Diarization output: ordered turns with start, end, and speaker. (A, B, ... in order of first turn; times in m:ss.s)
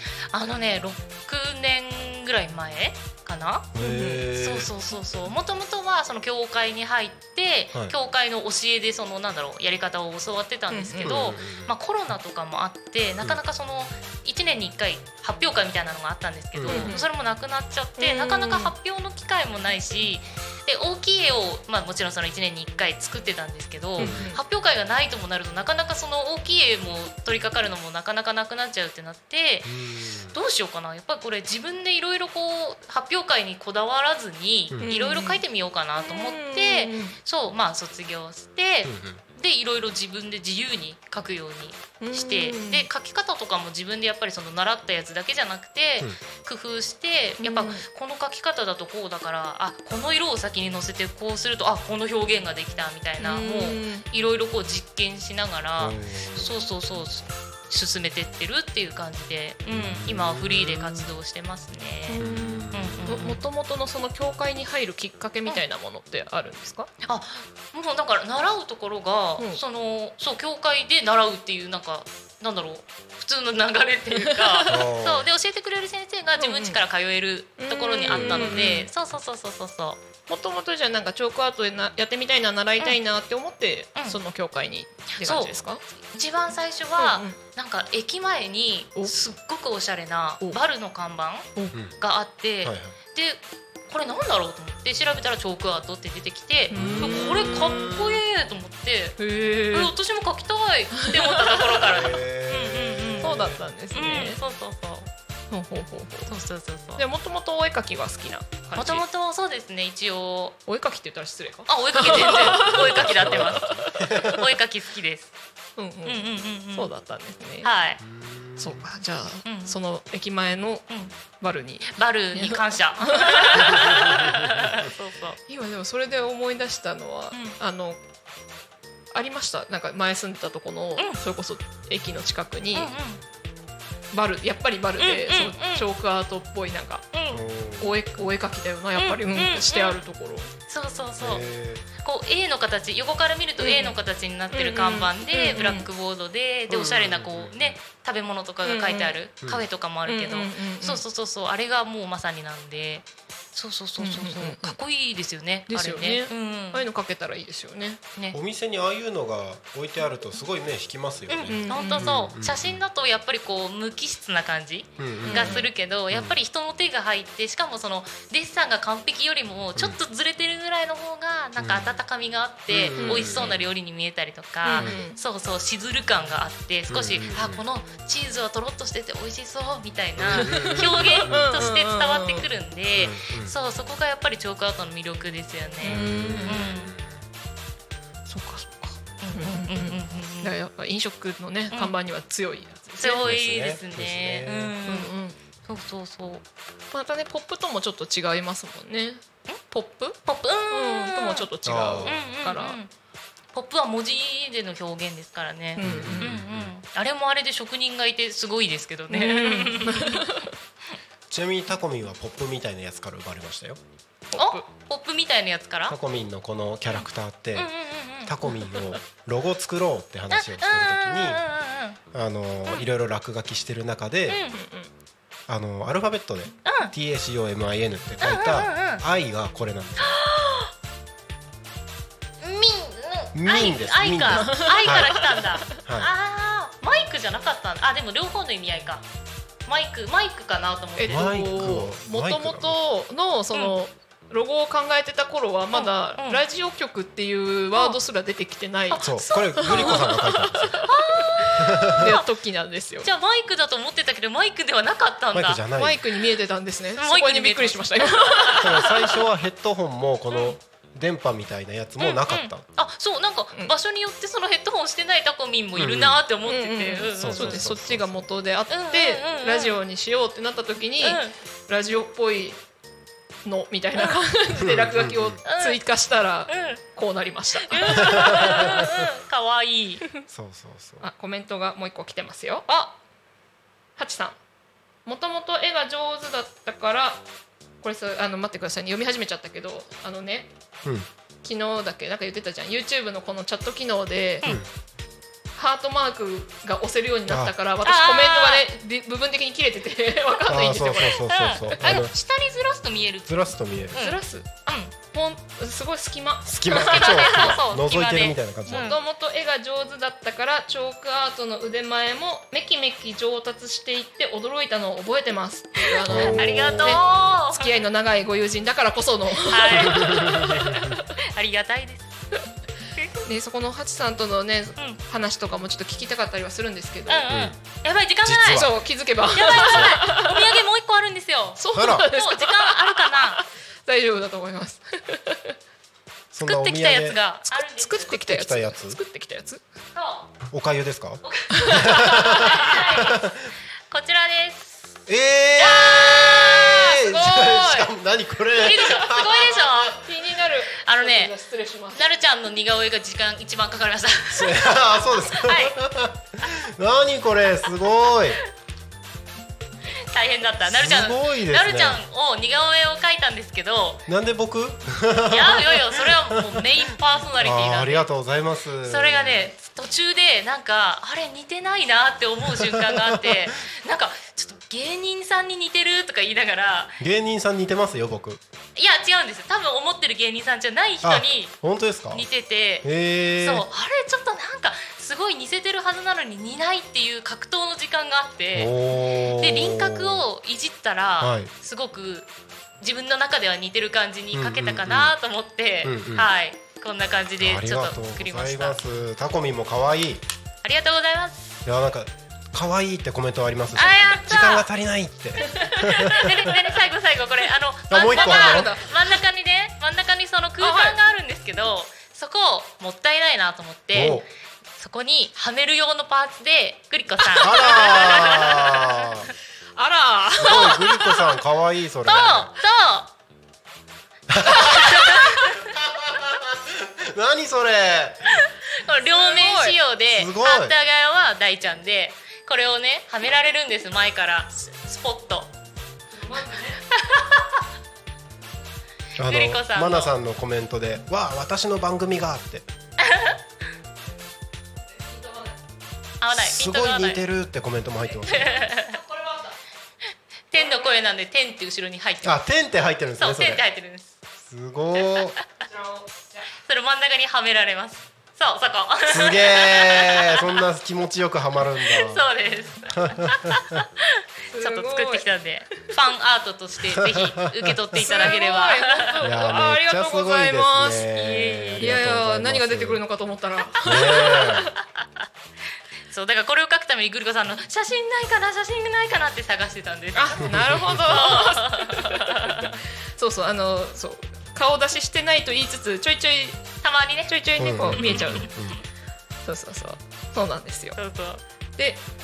0:00.3-0:03.7 A
0:03.7-0:04.7 B
0:03.8-0:04.3 C
0:04.3-0:29.8 A
0:10.7-0:11.2 C
0:11.0-0:11.7 B
0:16.5-0:16.9 B
0:16.6-0:17.1 C
0:18.0-0:18.7 C
0:24.0-0:24.4 C
0:24.0-0:24.3 B
0:29.6-0:30.3 B
0:30.3-1:03.4 A
0:34.8-0:35.4 C
0:36.0-0:37.2 C
0:38.8-0:39.2 B
0:42.0-0:42.9 C
0:47.4-0:47.8 C
0:53.2-0:54.0 C
0:55.8-0:56.5 B
0:59.7-1:01.1 B
1:02.1-1:06.9 C
1:02.2-1:03.2 B
1:07.0-1:20.0 A
1:14.2-1:14.8 C
1:14.7-1:15.2 B
1:16.4-1:16.8 C
1:17.6-1:18.9 C
1:18.1-1:18.8 B
1:20.3-1:25.8 C
1:25.2-1:39.2 A
1:27.0-1:27.4 C
1:32.6-1:33.0 B
1:36.7-1:37.3 C
1:36.7-1:38.2 B
1:39.2-1:39.9 C
1:39.7-1:45.1 A
1:41.0-1:41.5 C
1:41.8-1:43.6 B
1:43.2-1:44.4 C
1:45.5-1:46.3 C
1:46.3-1:47.0 A
1:47.0-1:49.0 C
1:48.8-1:50.6 A
1:50.6-1:54.1 C
1:51.7-1:55.3 A
1:52.3-1:54.4 B
1:55.8-1:57.7 C
1:56.0-1:56.9 A
1:57.6-1:58.0 A
1:58.0-1:58.8 B
1:58.6-2:03.9 C
1:59.4-1:59.8 A
2:01.9-2:05.4 A
2:04.0-2:04.9 B
2:05.5-2:08.0 C
2:09.1-2:12.9 C
2:12.7-2:13.2 A
2:14.1-2:17.1 C
2:15.0-2:15.8 A
2:17.1-2:17.4 A
2:17.3-2:18.0 B
2:17.8-2:20.5 C
2:19.0-2:20.0 A
2:20.7-2:21.4 A
2:21.2-2:21.8 B
2:22.0-2:36.8 A
2:23.6-2:23.9 C
2:24.5-2:25.9 C
2:26.7-2:27.8 B
2:28.6-2:29.2 C
2:30.0-2:31.0 C
2:34.0-2:34.8 C
2:35.7-2:38.0 C
2:38.3-2:42.8 B
2:41.3-3:06.9 A
2:41.5-2:42.1 C
2:45.0-2:46.4 B
2:45.2-2:45.7 C
2:51.6-2:52.0 B
2:52.7-2:53.7 B
2:53.0-2:53.4 C
2:54.6-2:55.2 C
2:56.9-2:57.6 B
3:00.2-3:01.7 B
3:00.3-3:02.5 C
3:02.9-3:03.5 B
3:05.8-3:06.7 C
3:05.8-3:07.2 B
3:08.3-3:13.2 C
3:09.2-3:10.5 A
3:13.0-3:15.1 A
3:13.0-3:14.8 B
3:14.8-3:15.4 C
3:15.6-3:16.4 A
3:16.9-3:20.2 C
3:20.2-3:21.4 A
3:20.7-3:22.8 C
3:21.6-3:22.2 B
3:22.0-3:22.9 A
3:23.5-3:30.4 A
3:25.8-3:26.4 C
3:25.8-3:26.7 B
3:29.1-3:30.5 C
3:31.3-3:33.8 B
3:34.3-3:34.6 C
3:34.4-3:36.0 A
3:35.9-3:41.4 B
3:37.5-3:38.8 A
3:40.3-3:42.0 A
3:42.1-3:44.4 B
3:44.3-3:44.6 A
3:44.5-3:44.9 C
3:45.5-3:50.1 B
3:46.6-3:46.9 A
3:48.2-3:49.0 A
3:50.0-3:50.7 A
3:52.4-3:59.0 A
3:53.3-3:56.1 B
3:54.3-3:55.3 C
3:59.6-4:01.4 A
4:01.0-4:13.1 C
4:01.1-4:02.8 B
4:05.7-4:06.4 A
4:08.9-4:10.2 A
4:09.0-4:10.9 B
4:10.8-4:12.2 A
4:11.6-4:12.1 B
4:13.0-4:15.6 A
4:15.3-4:16.0 B
4:15.7-4:19.2 C
4:16.9-4:18.8 A
4:18.6-4:22.6 B
4:22.0-4:27.7 A
4:25.8-4:26.2 B
4:26.4-4:32.6 C
4:27.2-4:28.2 B
4:28.7-4:29.8 A
4:31.0-4:31.3 A
4:33.4-4:38.7 C
4:34.6-4:35.4 B
4:35.4-4:35.8 A
4:36.5-4:36.8 A
4:37.6-4:40.0 A
4:38.0-4:39.0 B
4:40.3-4:41.1 B
4:41.0-4:42.7 C
4:42.7-4:42.9 A
4:44.0-4:44.4 C
4:45.0-4:47.2 C
4:47.8-4:50.5 C
4:51.4-4:54.6 C
4:55.6-5:01.2 C
4:57.3-4:57.5 B
4:57.8-4:58.6 A
5:00.5-5:02.1 B
5:01.2-5:04.9 A
5:03.3-5:04.0 B
5:03.9-5:07.6 C
5:06.4-5:08.9 B
5:06.7-5:09.0 A
5:08.7-5:21.0 C
5:16.1-5:17.0 B
5:16.1-5:17.8 A
5:19.4-5:22.1 A
5:19.8-5:20.8 B
5:22.9-5:23.2 A
5:23.2-5:27.3 C
5:27.1-5:28.6 A
5:27.3-5:27.6 B
5:28.2-5:28.8 B
5:28.4-5:30.6 C
5:29.3-5:33.4 A
5:29.5-5:30.0 B
5:31.6-5:35.5 C
5:31.7-5:32.1 B
5:36.3-5:37.2 B
5:36.4-5:38.1 A
5:37.7-5:39.6 C
5:38.1-5:39.0 B
5:39.9-5:40.3 A
5:40.5-5:43.5 B
5:41.2-5:43.3 A
5:41.5-5:41.8 C
5:43.9-5:45.0 A
5:45.1-5:50.0 B
5:45.5-5:47.9 A
5:47.0-5:47.7 C
5:48.5-5:50.0 A
5:49.9-5:52.0 C
5:50.8-5:51.3 A
5:51.9-5:55.8 A
5:54.3-5:58.4 B
6:00.1-6:04.1 A
6:00.6-6:02.0 B
6:04.1-6:06.7 B
6:05.3-6:08.1 A
6:07.4-6:09.4 B
6:08.8-6:17.0 A
6:12.6-6:13.5 B
6:17.0-6:18.4 B
6:18.8-6:21.5 A
6:21.0-6:22.2 B
6:22.1-6:32.3 A
6:22.8-6:23.6 B
6:28.5-6:30.2 B
6:31.2-6:31.5 B
6:32.8-6:38.8 A
6:34.3-6:35.1 B
6:35.8-6:36.3 B
6:37.4-6:40.2 B
6:40.6-6:41.6 A
6:41.6-6:46.5 B
6:43.7-6:44.6 A
6:45.4-6:54.2 A
6:47.9-6:48.8 B
6:48.1-6:48.9 C
6:50.6-6:51.0 C
6:53.9-6:54.2 B
6:54.8-6:59.1 A
6:57.3-6:59.3 B
6:57.4-6:58.8 C
6:59.8-7:01.2 C
7:00.4-7:02.5 B
7:00.5-7:00.8 A
7:02.0-7:03.1 A
7:04.3-7:08.4 B
7:04.4-7:05.7 A
7:08.3-7:15.5 A
7:09.0-7:09.7 C
7:10.1-7:10.7 B
7:16.1-7:16.8 C
7:16.9-7:17.6 A
7:19.2-7:22.6 B
7:19.2-7:20.2 A
7:23.0-7:23.4 A
7:24.8-7:25.6 C
7:26.2-7:27.2 A
7:26.3-7:28.5 B
7:28.1-7:29.6 C
7:28.3-7:28.9 A
7:30.5-7:32.4 A
7:30.5-7:31.0 C
7:32.2-7:33.6 B
7:33.2-7:34.1 A
7:34.4-7:35.4 B
7:35.6-7:36.5 C
7:36.6-7:40.5 A
7:39.1-7:42.2 B
7:41.9-7:49.2 A
7:42.8-7:43.8 B
7:44.5-7:45.9 C
7:47.1-7:48.0 B
7:48.0-7:51.1 C
7:49.2-7:53.0 B
7:51.0-7:51.9 A
7:51.8-7:54.7 C
7:53.8-7:54.7 B
7:53.9-7:54.2 A
7:56.1-8:02.8 A
8:00.1-8:02.6 C
8:00.4-8:01.2 B
8:03.2-8:06.7 C
8:06.8-8:08.8 A
8:07.3-8:08.5 C
8:07.6-8:08.8 B
8:09.4-8:11.0 C
8:11.0-8:11.4 A